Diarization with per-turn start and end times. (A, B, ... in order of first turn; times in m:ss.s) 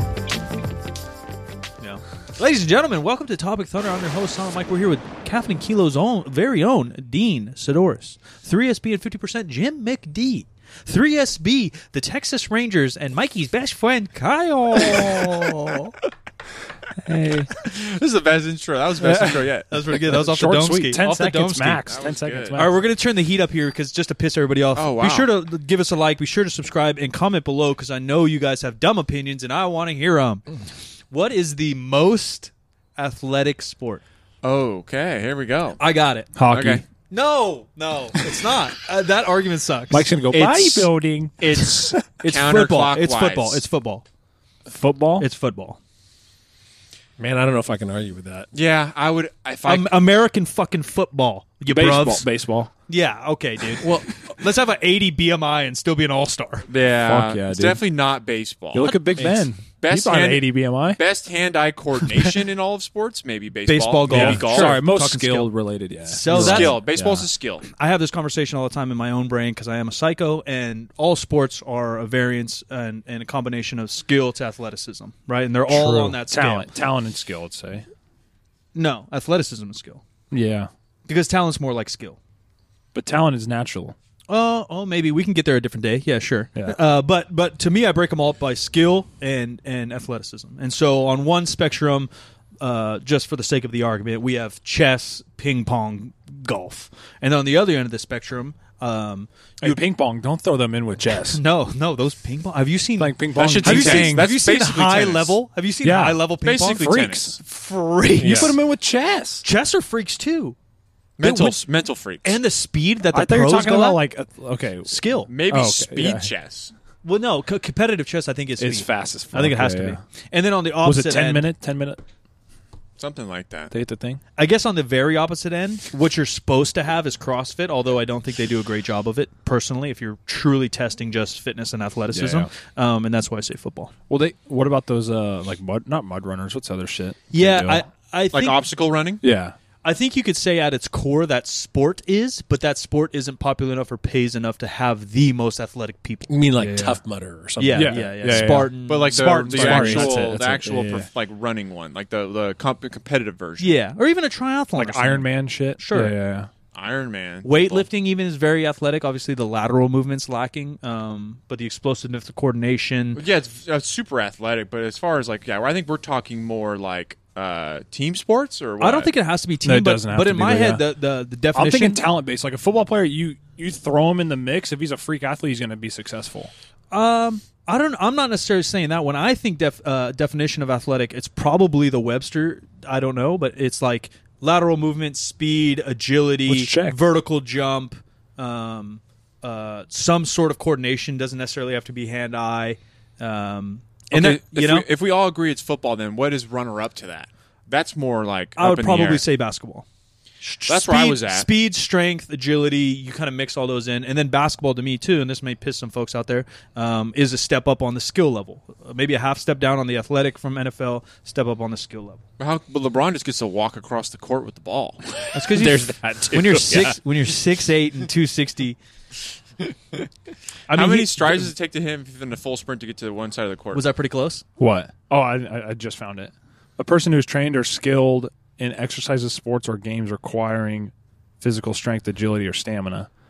0:01.8-0:15.9 A
0:17.0-0:17.5 B
0:17.6-0:19.7 C
0:19.0-0:19.3 B
0:19.2-0:21.9 A
0:19.9-0:22.8 B
0:21.8-0:22.6 C
0:22.5-0:30.5 A
0:24.7-0:25.3 C
0:31.1-0:34.0 A
0:34.4-0:35.8 C
0:35.8-0:36.3 A
0:36.3-0:36.8 B
0:36.5-0:36.8 C
0:37.1-0:40.1 A
0:39.9-0:42.0 B
0:40.3-0:40.9 D
0:41.4-0:43.6 C
0:42.2-0:44.0 A
0:44.7-0:45.3 B
0:45.2-0:45.8 A
0:47.2-0:48.5 D
0:48.5-0:49.9 C
0:49.6-0:52.3 A
0:51.6-0:52.7 B
0:52.9-0:56.7 A
0:53.8-0:54.1 D
0:56.7-0:59.0 C
0:57.0-0:57.8 B
0:58.7-1:01.0 B
0:59.1-0:59.5 D
0:59.8-1:04.8 C
1:03.6-1:05.5 A
1:04.1-1:07.3 B
1:06.1-1:06.8 A
1:06.3-1:07.7 C
1:07.7-1:16.7 A
1:15.7-1:17.8 B
1:18.7-1:20.0 A
1:20.3-1:20.7 B
1:21.0-1:22.2 A
1:22.9-1:24.0 B
1:24.3-1:32.1 A
1:32.6-1:39.8 A
1:39.6-1:41.4 B
1:41.3-1:48.5 A
1:43.0-1:44.3 B
1:43.4-1:44.0 D
1:43.6-1:45.4 C
1:45.8-1:47.4 B
1:46.4-1:47.4 C
1:48.2-1:48.6 D
1:48.2-1:49.4 B
1:49.4-1:50.6 A
1:51.2-1:52.4 C
1:51.2-1:51.7 A
1:52.2-1:54.0 A
1:53.1-1:56.3 B
1:54.8-1:55.3 A
1:55.3-1:56.7 C
1:57.0-2:01.5 A
1:58.6-2:00.0 B
2:00.8-2:02.0 B
2:03.0-2:03.7 C
2:03.7-2:04.2 B
2:04.4-2:13.9 A
2:12.1-2:12.5 B
2:14.1-2:17.8 B
2:17.3-2:18.6 A
2:18.3-2:19.2 C
2:19.2-2:19.6 B
2:19.8-2:26.3 A
2:26.3-2:28.6 D
2:26.6-2:27.0 B
2:27.6-2:30.2 A
2:27.7-2:31.0 B
2:28.8-2:33.8 C
2:30.6-2:31.0 D
2:33.6-2:36.1 A
2:34.8-2:36.5 B
2:36.7-2:37.9 C
2:37.4-2:43.2 A
2:43.1-2:49.1 C
2:48.8-2:52.0 A
2:49.6-2:50.8 B
2:51.5-2:56.5 B
2:56.9-3:14.9 A
3:06.5-3:07.0 B
3:14.1-3:19.2 C
3:18.6-3:19.8 A
3:20.4-3:32.2 A
3:20.6-3:21.5 C
3:32.4-3:35.0 C
3:35.3-3:38.8 A
3:35.4-3:37.0 D
3:40.7-3:41.5 A
3:40.7-3:43.8 C
3:43.7-3:44.4 A
3:44.6-3:53.1 B